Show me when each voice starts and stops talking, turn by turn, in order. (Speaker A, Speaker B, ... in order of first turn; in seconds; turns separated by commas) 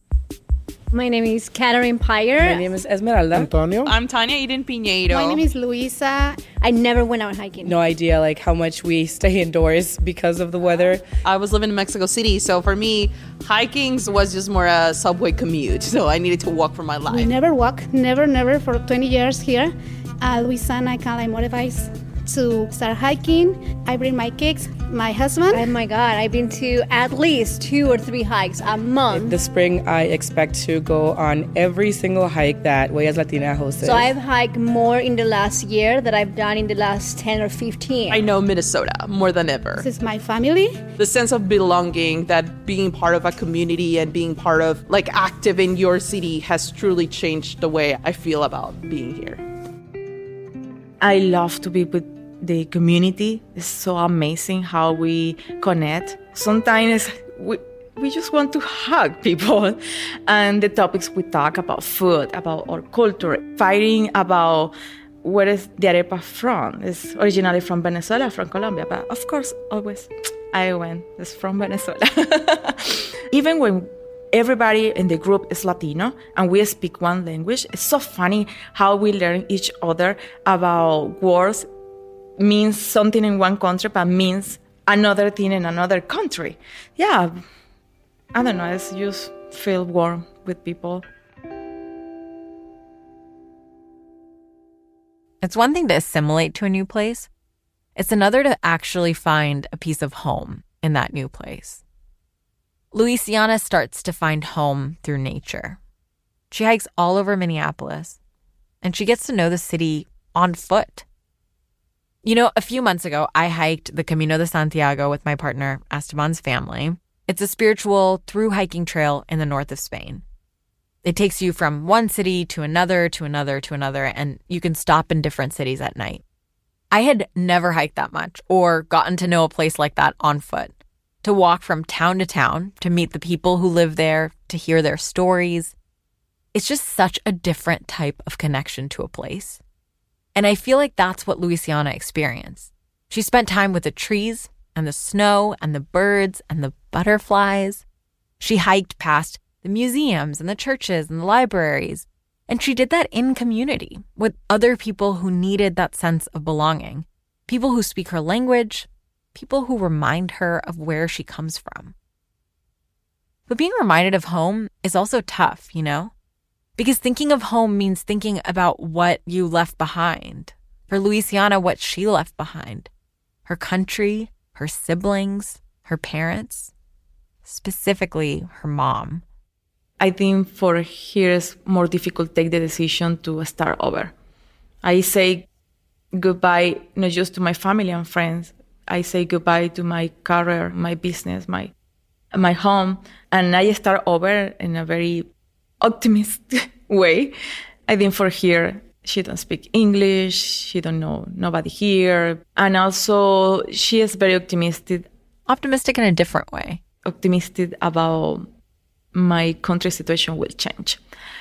Speaker A: 0.9-2.6, Speaker B: 2.4-3.9, Speaker C: 3.8-5.4, Speaker D: 5.1-6.4, Speaker A: 6.5-7.8, Speaker B: 7.6-11.0, Speaker C: 11.2-17.3, Speaker D: 17.1-25.6, Speaker A: 25.5-29.3, Speaker B: 29.1-34.1, Speaker A: 33.8-38.2, Speaker C: 38.1-39.9, Speaker D: 39.8-40.8, Speaker C: 41.0-49.4, Speaker E: 51.0-81.7, Speaker E: 82.4-87.3, Speaker E: 88.3-91.0, Speaker F: 95.4-97.3, Speaker F: 98.0-101.8, Speaker F: 102.9-105.8, Speaker F: 106.5-108.2, Speaker F: 108.8-111.0, Speaker F: 112.2-120.2, Speaker F: 121.0-126.2, Speaker F: 126.9-135.7, Speaker F: 136.5-139.6, Speaker F: 140.3-147.8, Speaker F: 148.4-161.9, Speaker F: 163.5-166.1, Speaker F: 166.8-172.9, Speaker F: 173.4-176.7, Speaker F: 177.4-179.2, Speaker E: 180.0-184.1, Speaker E: 184.8-185.5, Speaker E: 186.1-191.7, Speaker E: 192.3-195.3, Speaker E: 195.8-197.3, Speaker E: 197.9-205.1, Speaker F: 205.5-206.8, Speaker E: 207.0-208.5, Speaker E: 209.1-211.0